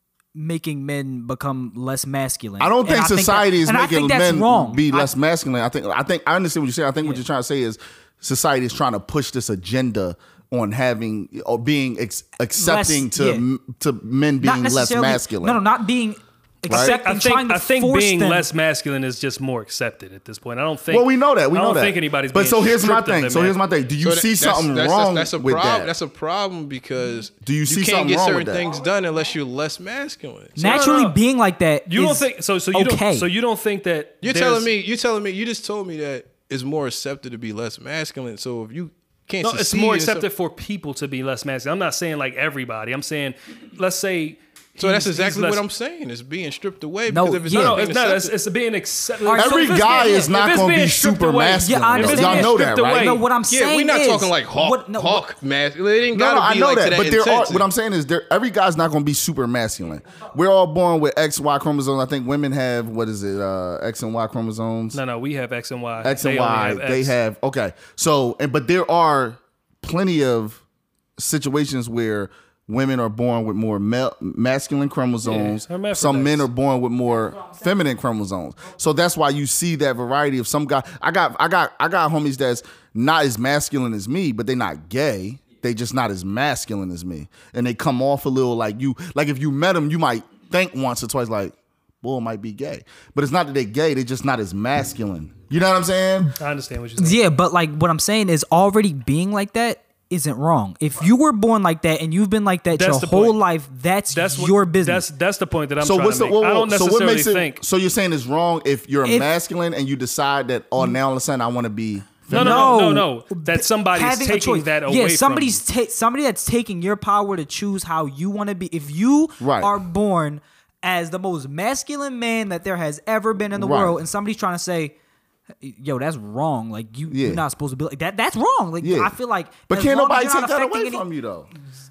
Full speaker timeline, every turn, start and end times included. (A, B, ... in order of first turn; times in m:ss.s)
0:00.3-0:05.1 A
0:02.6-0:15.6 B
0:12.6-0:13.4 A
0:14.4-0:18.5 A
0:16.7-0:23.6 C
0:16.7-0:17.0 B
0:20.9-0:25.9 B
0:24.0-0:30.6 D
0:27.4-0:28.7 B
0:30.6-0:33.3 A
0:30.6-0:31.2 C
0:31.9-0:34.7 C
0:34.2-0:40.2 D
0:39.4-0:45.6 C
0:44.8-0:48.3 D
0:47.1-0:47.8 A
0:47.5-0:53.2 C
0:49.2-0:50.3 A
0:49.3-0:53.2 B
0:51.6-0:55.3 A
0:53.5-0:57.7 D
0:56.1-1:05.0 B
1:04.9-1:07.1 C
1:06.0-1:10.6 B
1:11.2-1:36.3 B
1:15.2-1:16.5 C
1:36.4-1:37.2 C
1:37.0-1:45.0 A
1:42.7-1:43.4 C
1:44.1-1:47.6 C
1:45.8-1:52.8 B
1:52.3-1:55.6 C
1:52.3-2:04.9 A
1:59.4-1:59.7 B
2:03.6-2:04.0 B
2:05.6-2:11.0 A
2:07.1-2:07.4 B
2:08.8-2:09.1 B
2:09.7-2:11.5 B